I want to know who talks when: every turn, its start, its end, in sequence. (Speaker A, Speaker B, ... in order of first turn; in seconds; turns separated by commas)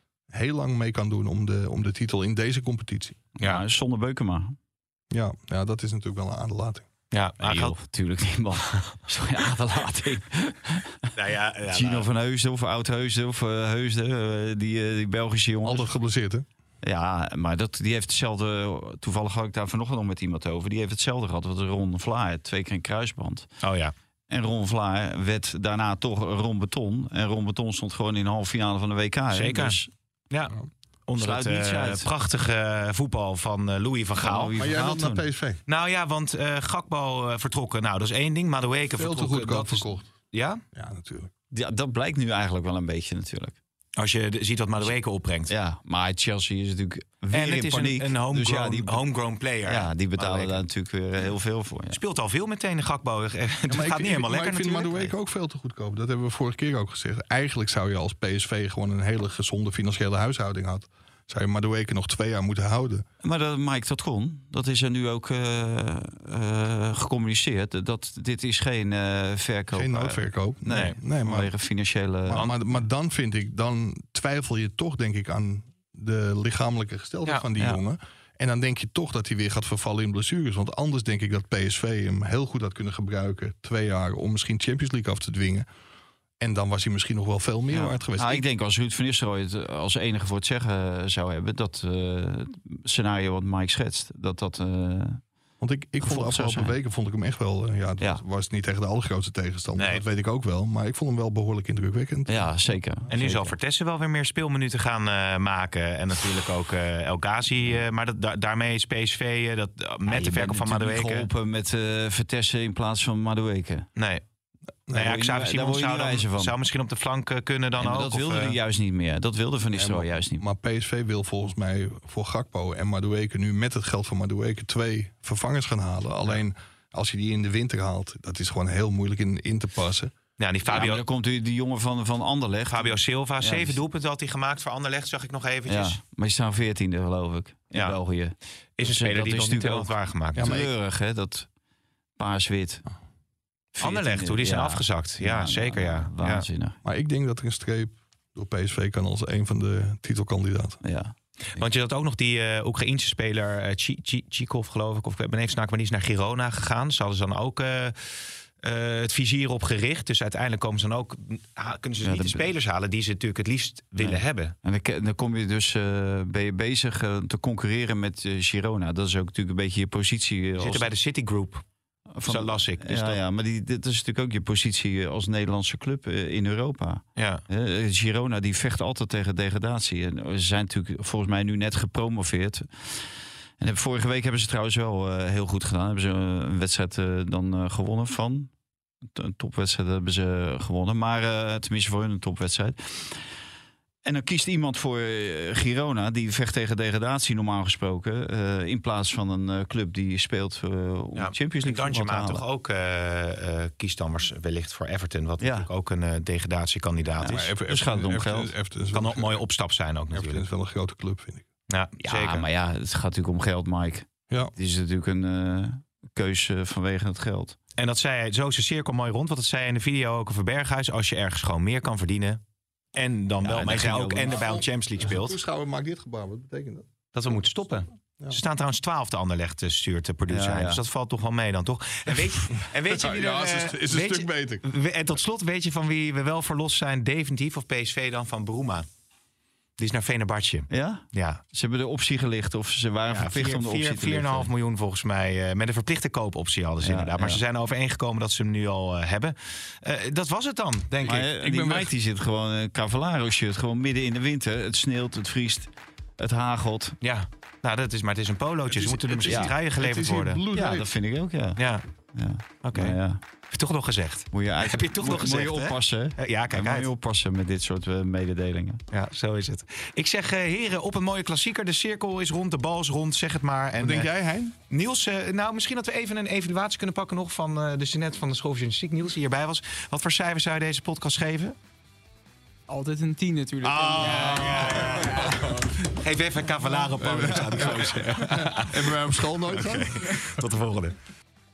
Speaker A: 0.3-3.2, Speaker B: 3.4-4.6, Speaker A: 5.1-6.9, Speaker C: 7.1-7.8, Speaker B: 7.4-11.1, Speaker C: 11.2-12.1, Speaker B: 11.7-15.9, Speaker A: 15.7-16.5, Speaker B: 16.8-23.5, Speaker C: 23.6-23.9, Speaker B: 24.3-29.9, Speaker C: 29.3-29.8, Speaker C: 30.3-34.6, Speaker B: 31.2-32.1, Speaker B: 34.2-35.3, Speaker A: 34.6-35.6, Speaker C: 35.7-40.6, Speaker A: 38.9-40.1, Speaker A: 40.7-41.3, Speaker B: 41.5-43.6, Speaker C: 44.0-45.5, Speaker B: 45.5-49.0, Speaker C: 47.3-50.6, Speaker B: 49.6-52.0, Speaker C: 51.9-55.1, Speaker A: 53.7-63.0, Speaker B: 63.2-72.5, Speaker A: 69.7-71.5, Speaker C: 70.7-71.0, Speaker A: 72.3-85.7, Speaker A: 86.4-88.5, Speaker B: 87.7-95.2, Speaker A: 95.6-102.8, Speaker B: 96.0-96.8, Speaker C: 99.8-100.0, Speaker B: 102.3-103.5, Speaker C: 103.1-111.3, Speaker B: 110.1-113.9, Speaker C: 114.0-114.2, Speaker A: 114.9-115.2, Speaker C: 114.9-118.6, Speaker B: 114.9-116.5, Speaker B: 117.8-120.5, Speaker A: 119.7-130.1, Speaker C: 130.4-131.0, Speaker B: 130.7-133.8, Speaker C: 132.7-136.0, Speaker B: 135.7-141.5, Speaker C: 138.8-140.5, Speaker A: 140.3-140.7, Speaker B: 142.2-142.8, Speaker B: 143.7-146.8, Speaker C: 143.8-146.5, Speaker A: 146.8-150.8, Speaker B: 150.8-151.1, Speaker C: 151.5-164.6, Speaker B: 162.0-162.5, Speaker B: 164.0-170.9, Speaker C: 170.6-171.6, Speaker B: 172.1-183.0, Speaker C: 172.3-173.2, Speaker C: 177.2-177.4, Speaker B: 183.6-188.5, Speaker B: 189.1-193.2, Speaker B: 194.1-202.4, Speaker C: 201.2-207.5, Speaker B: 205.4-205.7, Speaker B: 207.2-208.5, Speaker A: 207.3-209.4, Speaker C: 208.9-210.4, Speaker A: 210.1-211.4, Speaker C: 211.7-212.5, Speaker B: 212.0-217.6, Speaker C: 217.8-222.4, Speaker C: 222.9-225.4, Speaker B: 223.4-224.3, Speaker A: 223.9-227.4, Speaker C: 227.1-238.9, Speaker B: 230.3-230.8, Speaker A: 232.7-234.6, Speaker C: 239.8-241.4, Speaker B: 240.7-244.5, Speaker C: 243.1-251.3, Speaker B: 246.8-247.4, Speaker B: 251.0-257.0, Speaker A: 251.0-251.9, Speaker C: 257.0-260.4, Speaker A: 258.7-260.9, Speaker B: 259.3-259.5, Speaker B: 260.5-261.6, Speaker C: 261.6-261.8, Speaker B: 262.1-263.2, Speaker C: 262.6-263.0, Speaker C: 263.5-266.9, Speaker B: 264.3-268.8, Speaker C: 268.9-274.1, Speaker A: 273.8-274.6, Speaker C: 274.7-281.6, Speaker D: 282.7-285.4, Speaker C: 283.7-291.0, Speaker A: 283.9-285.6, Speaker A: 286.9-290.1